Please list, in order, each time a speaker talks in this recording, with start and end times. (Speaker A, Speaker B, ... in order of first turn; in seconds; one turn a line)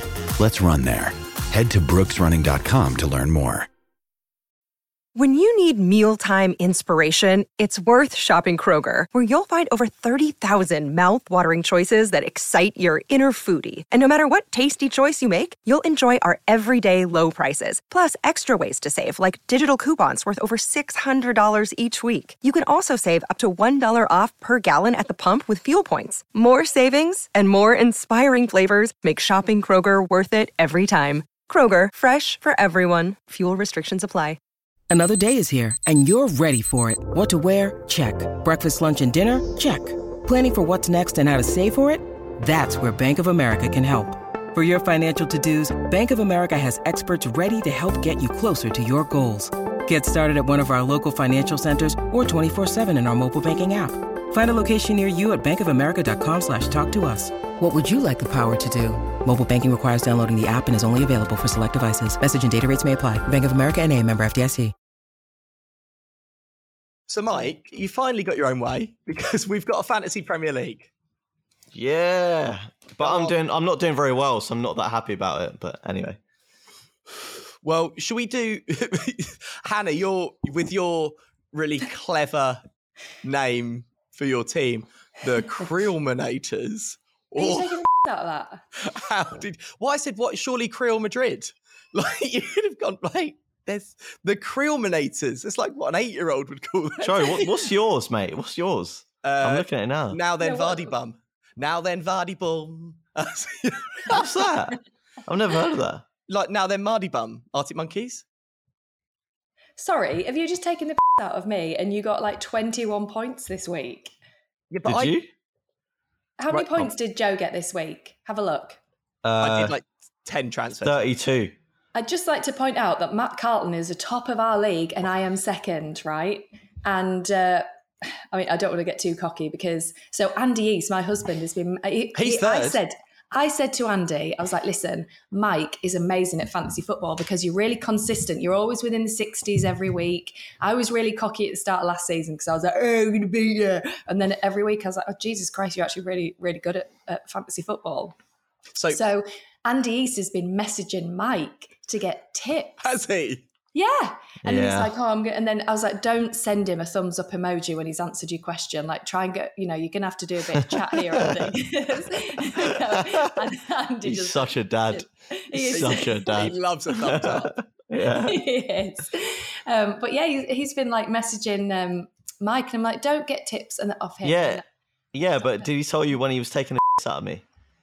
Speaker A: 0.4-3.7
Speaker B: 5.2-34.4
Speaker C: 34.9-64.7
Speaker D: 67.1-70.9
Speaker E: 71.7-76.2
Speaker D: 73.0-73.4
Speaker D: 77.6-82.6
Speaker D: 83.2-87.8
Speaker F: 87.4-88.6
Speaker D: 88.8-97.7
Speaker E: 97.0-100.2
Speaker D: 99.2-104.2
Speaker F: 100.4-100.9
Speaker E: 104.1-106.0
Speaker D: 106.3-108.2
Speaker F: 109.8-114.1
Speaker D: 114.7-115.2
Speaker E: 114.8-115.3
Speaker F: 116.4-118.8
Speaker D: 116.5-116.9
Speaker E: 119.2-119.7
Speaker D: 119.4-121.1
Speaker E: 120.8-121.5
Speaker F: 121.9-127.6
Speaker F: 128.3-148.2
Speaker D: 132.2-132.8
Speaker D: 148.8-149.0
Speaker F: 148.9-152.9
Speaker D: 152.8-153.5
Speaker F: 153.7-166.4
Speaker E: 154.4-154.9
Speaker E: 164.0-168.4
Speaker D: 165.7-167.6
Speaker F: 168.0-174.7
Speaker E: 174.2-174.6
Speaker E: 175.1-177.4
Speaker F: 175.4-175.7